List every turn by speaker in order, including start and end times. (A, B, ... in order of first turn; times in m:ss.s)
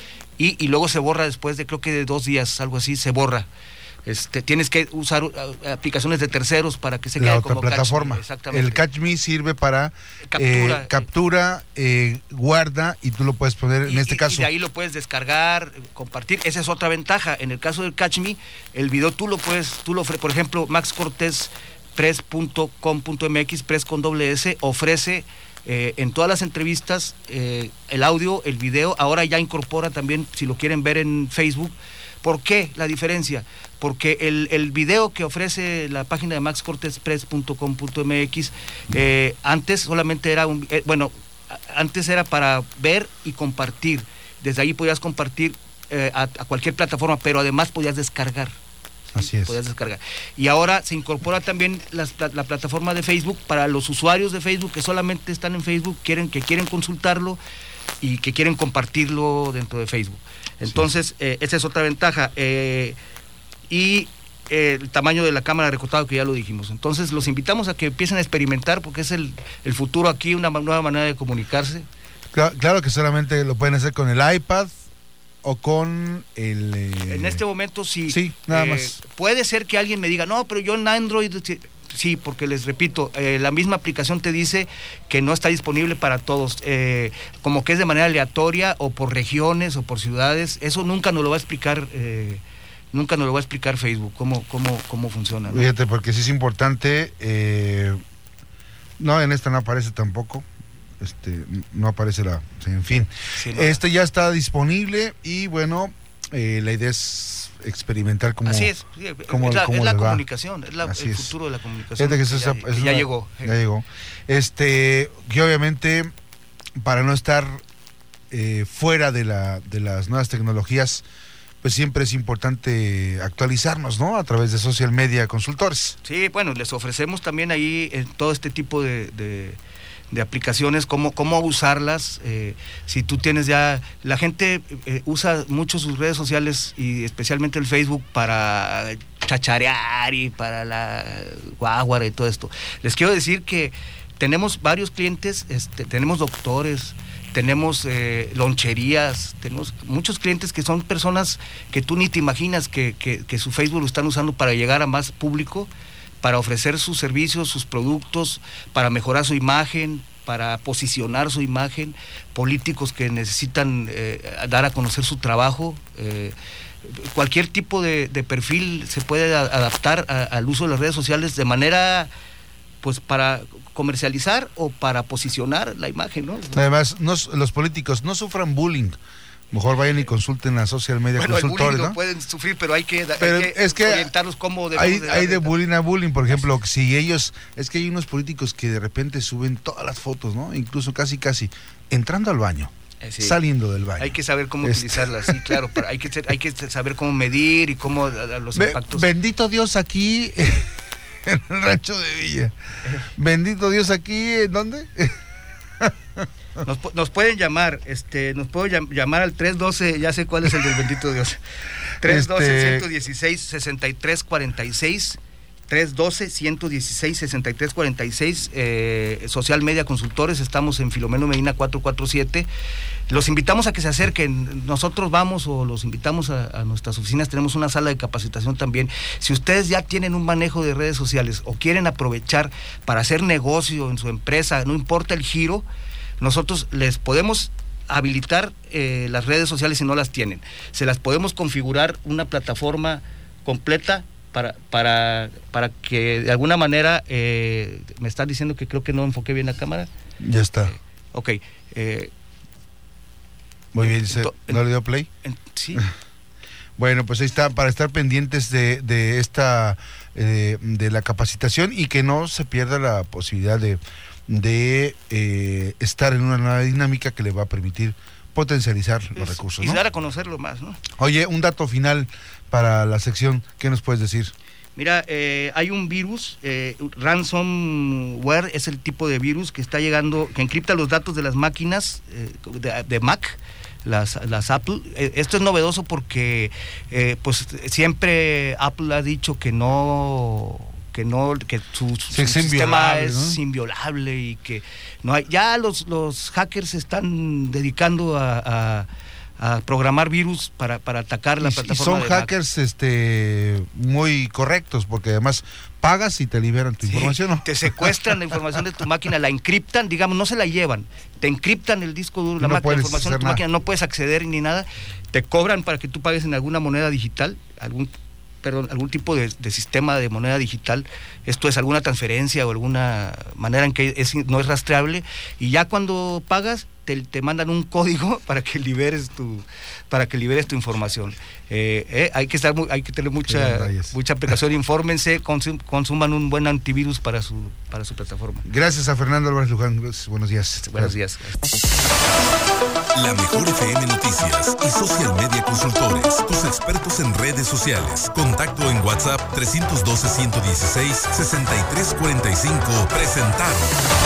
0:00.4-0:03.5 A
0:04.0-0:08.8 A
0:07.2-0:14.5 B
0:10.3-0:11.0 A
0:13.8-0:48.5 A
0:49.1-0:49.6 B
0:49.1-0:57.4 A
0:58.0-1:03.0 A
1:03.7-1:11.9 A
1:12.3-1:14.8 B
1:15.4-1:17.4 B
1:17.1-1:35.7 A
1:18.1-1:19.0 B
1:35.5-1:38.0 B
1:39.0-1:40.4 B
1:41.0-1:48.7 B
1:43.3-1:43.8 A
1:48.4-1:53.6 A
1:49.3-1:50.2 B
1:50.8-1:51.3 B
1:52.0-1:56.1 B
1:56.8-1:57.6 B
1:58.3-2:01.0 B
2:01.6-2:06.0 B
2:06.0-2:09.6 A
2:10.1-2:35.7 A
2:36.2-2:52.1 A
2:52.8-2:56.6 A
2:56.5-2:59.0 B
2:59.5-3:02.0 B
3:01.1-3:05.6 A
3:03.2-3:04.1 B
3:04.7-3:15.6 B
3:13.0-3:13.4 A
3:14.0-3:19.1 A
3:18.5-3:20.7 B
3:21.2-3:22.5 B
3:23.2-3:25.1 B
3:25.8-3:26.2 B
3:26.6-3:31.4 A
3:32.0-3:42.5 A
3:32.0-3:32.9 B
3:43.1-3:55.6 A
3:56.2-4:09.9 A
4:10.2-4:10.7 B
4:10.7-4:12.1 A
4:13.7-4:15.1 B
4:13.8-4:14.6 A
4:15.2-4:15.8 A
4:16.8-4:29.8 B
4:29.2-4:30.8 A
4:31.0-4:34.3 B
4:34.8-4:58.9 A
4:52.1-4:53.4 B
4:59.4-5:02.3 A
5:01.4-5:08.1 B
5:06.8-5:17.9 A
5:12.4-5:13.4 B
5:18.4-5:38.5 A
5:33.2-5:33.9 B
5:38.4-5:40.9 B
5:40.5-5:41.6 A
5:42.9-5:53.8 C